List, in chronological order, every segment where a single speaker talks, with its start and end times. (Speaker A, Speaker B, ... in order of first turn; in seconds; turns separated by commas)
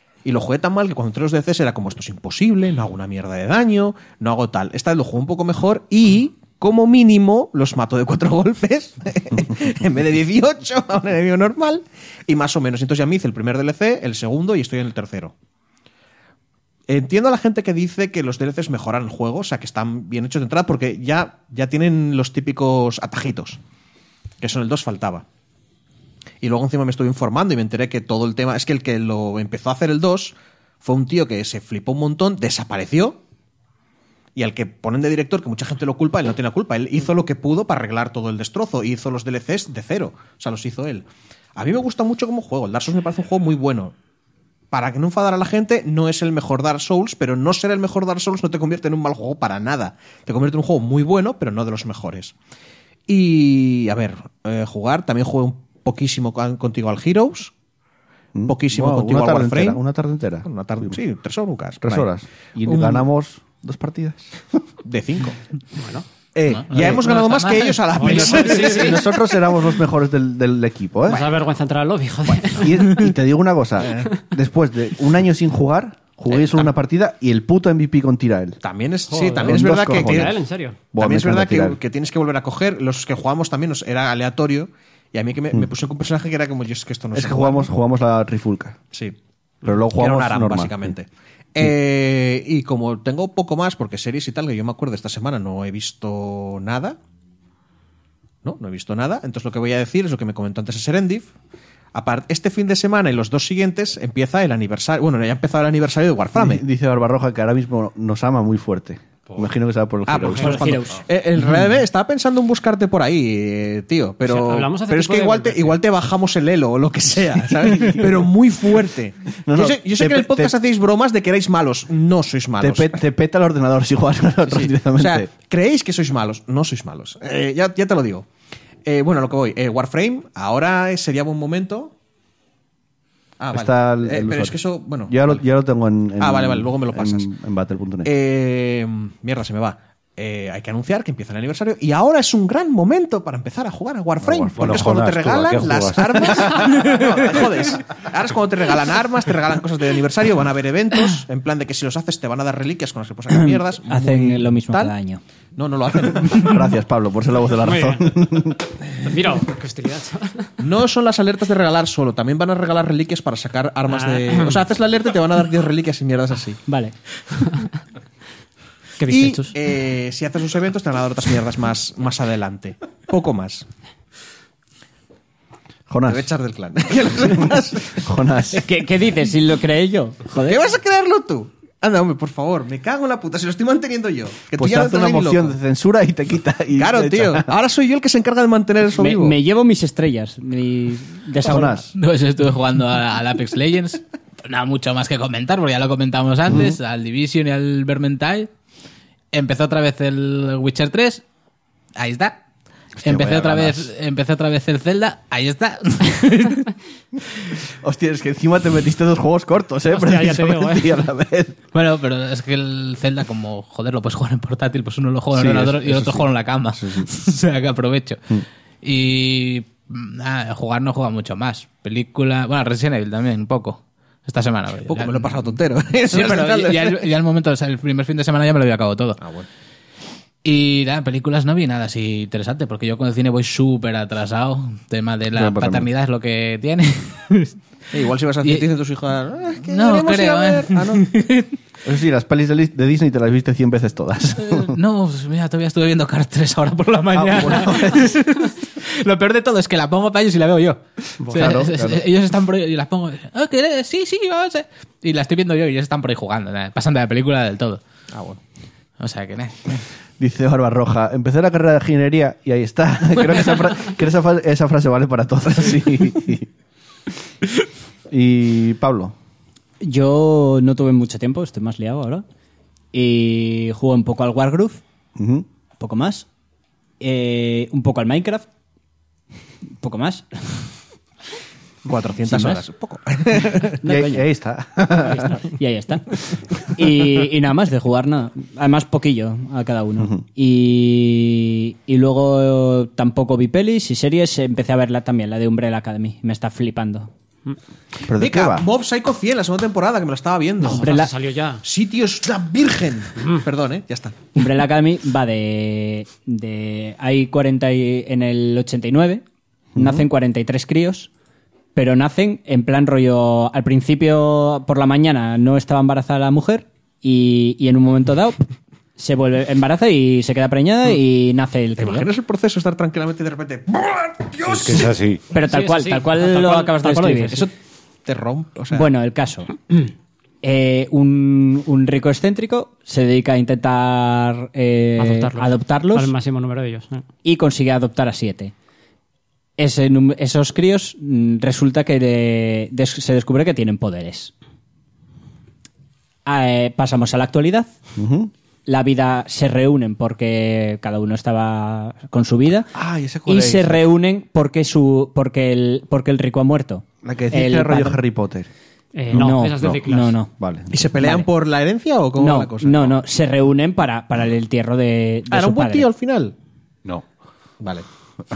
Speaker A: 0.2-15.3, Speaker A: 16.9-23.6, Speaker A: 24.4-25.2, Speaker A: 26.4-33.2, Speaker A: 34.4-41.0, Speaker A: 41.6-43.9, Speaker A: 44.7-52.3, Speaker A: 53.1-57.5, Speaker B: 58.3-61.0, Speaker A: 58.5-59.8, Speaker A: 60.4-62.1, Speaker B: 61.8-64.6, Speaker A: 62.6-63.0, Speaker A: 64.8-65.4, Speaker C: 65.7-66.1, Speaker B: 66.4-66.9, Speaker A: 66.5-69.2, Speaker D: 66.5-67.8, Speaker C: 67.9-69.1, Speaker B: 68.5-71.3, Speaker C: 71.1-73.1, Speaker B: 72.5-78.6, Speaker A: 73.8-74.1, Speaker A: 76.3-76.7, Speaker A: 78.6-80.4, Speaker C: 79.1-80.8, Speaker B: 79.4-80.3, Speaker B: 80.9-81.8, Speaker A: 81.0-87.7, Speaker B: 87.1-88.8, Speaker B: 89.6-90.9, Speaker A: 89.9-97.0, Speaker A: 98.4-101.3, Speaker A: 101.9-106.6, Speaker B: 106.3-110.6, Speaker A: 110.1-123.0, Speaker E: 110.4-111.0, Speaker C: 114.3-115.8, Speaker B: 119.5-120.5, Speaker B: 122.6-125.3, Speaker A: 124.5-128.3, Speaker A: 128.8-131.9, Speaker A: 133.4-135.4, Speaker B: 133.5-138.1, Speaker A: 136.2-137.3, Speaker A: 138.0-154.9, Speaker F: 144.3-146.4, Speaker E: 153.3-155.2, Speaker A: 155.6-156.7, Speaker B: 156.3-158.7, Speaker C: 157.6-158.0, Speaker C: 158.9-160.5, Speaker A: 160.6-166.6, Speaker C: 164.0-164.6, Speaker E: 166.7-166.9, Speaker C: 167.4-167.7, Speaker C: 169.0-169.6, Speaker A: 169.1-173.7, Speaker B: 175.9-176.3, Speaker A: 176.1-178.1, Speaker B: 177.3-178.6, Speaker E: 178.5-180.6, Speaker A: 180.4-185.6, Speaker B: 184.6-187.5, Speaker A: 186.7-189.3, Speaker E: 189.0-191.8, Speaker B: 191.4-191.9, Speaker D: 191.9-198.5, Speaker D: 199.3-201.2, Speaker D: 201.9-202.4, Speaker B: 203.0-203.9, Speaker D: 203.0-206.7, Speaker B: 207.7-211.6, Speaker C: 209.9-210.9, Speaker D: 211.7-225.4, Speaker B: 215.3-217.1, Speaker A: 224.8-227.1, Speaker D: 226.1-229.2, Speaker A: 229.2-229.5, Speaker D: 230.4-237.6, Speaker B: 235.3-235.9, Speaker A: 237.9-241.1, Speaker D: 239.7-241.5, Speaker B: 241.8-244.8, Speaker D: 244.4-257.8, Speaker B: 247.1-248.1, Speaker B: 251.2-252.0, Speaker A: 258.1-258.4, Speaker D: 259.0-259.8, Speaker B: 260.2-266.5, Speaker B: 268.1-269.1, Speaker E: 269.8-272.2, Speaker E: 272.9-274.8, Speaker B: 275.1-275.4, Speaker E: 275.8-276.3, Speaker E: 277.0-278.5, Speaker E: 279.8-280.3, Speaker A: 281.9-283.8, Speaker E: 282.3-282.6, Speaker E: 283.8-284.3, Speaker B: 283.8-285.4, Speaker E: 285.1-297.1, Speaker B: 298.1-298.7, Speaker A: 298.1-300.9, Speaker C: 300.6-301.6, Speaker E: 300.7-301.1, Speaker A: 301.6-304.2, Speaker E: 304.4-309.2, Speaker B: 309.7-310.1, Speaker E: 309.7-311.1, Speaker E: 311.7-318.4, Speaker E: 319.0-322.1, Speaker A: 321.8-324.9, Speaker F: 324.4-325.2, Speaker E: 325.3-327.4, Speaker C: 325.4-327.4, Speaker A: 328.1-328.9, Speaker E: 328.7-329.7, Speaker E: 330.4-336.1, Speaker C: 335.0-337.0, Speaker E: 337.2-338.5, Speaker E: 339.6-344.3, Speaker E: 346.3-347.7, Speaker B: 347.9-348.3, Speaker E: 348.7-352.7, Speaker B: 352.7-353.8, Speaker E: 353.3-358.0, Speaker B: 357.0-358.5, Speaker C: 358.9-360.2, Speaker E: 359.1-360.3, Speaker B: 360.4-360.7, Speaker A: 360.7-363.0, Speaker E: 361.0-361.2, Speaker E: 362.2-365.9, Speaker A: 365.3-366.3, Speaker A: 367.6-367.9